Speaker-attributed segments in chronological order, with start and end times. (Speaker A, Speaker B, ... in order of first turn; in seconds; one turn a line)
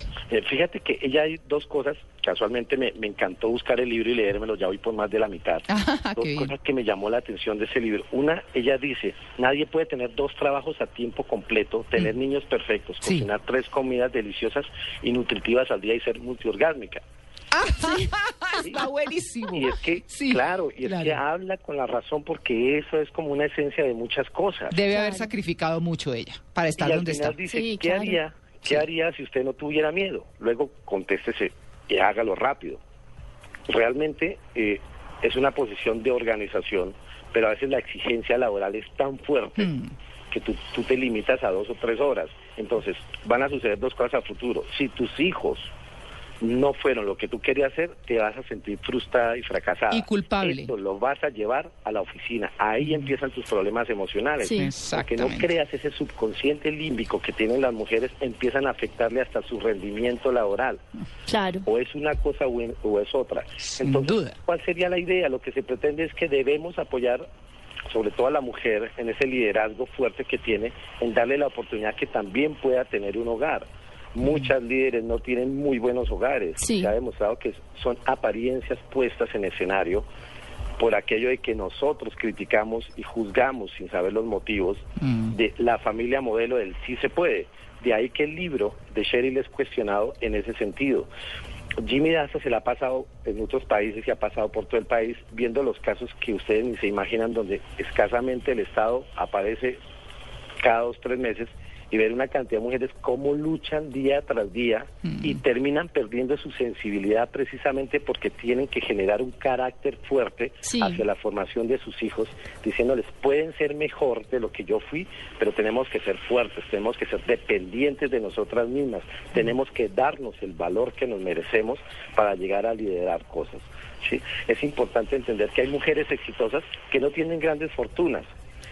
Speaker A: 0.3-17.0
Speaker B: 5.7-6.5
Speaker B: 17.5-21.2
Speaker A: 19.5-24.8
Speaker B: 24.7-27.4
Speaker C: 24.9-25.3
Speaker A: 26.8-32.8
Speaker C: 27.5-28.2
Speaker A: 33.7-39.7
Speaker B: 39.6-39.9
Speaker A: 40.3-45.7
Speaker A: 46.4-60.8
Speaker B: 49.9-50.7
Speaker B: 52.8-53.1
Speaker C: 54.4-54.7
Speaker B: 54.5-55.5
Speaker C: 61.3-61.6
Speaker A: 61.6-67.2
Speaker B: 63.6-64.4
Speaker A: 67.9-80.1
Speaker B: 74.2-74.5
Speaker C: 76.6-76.9
Speaker A: 80.8-91.1
Speaker B: 85.0-85.3
Speaker A: 91.8-99.8
Speaker A: 100.6-128.3
Speaker B: 105.1-105.4
Speaker C: 110.6-111.0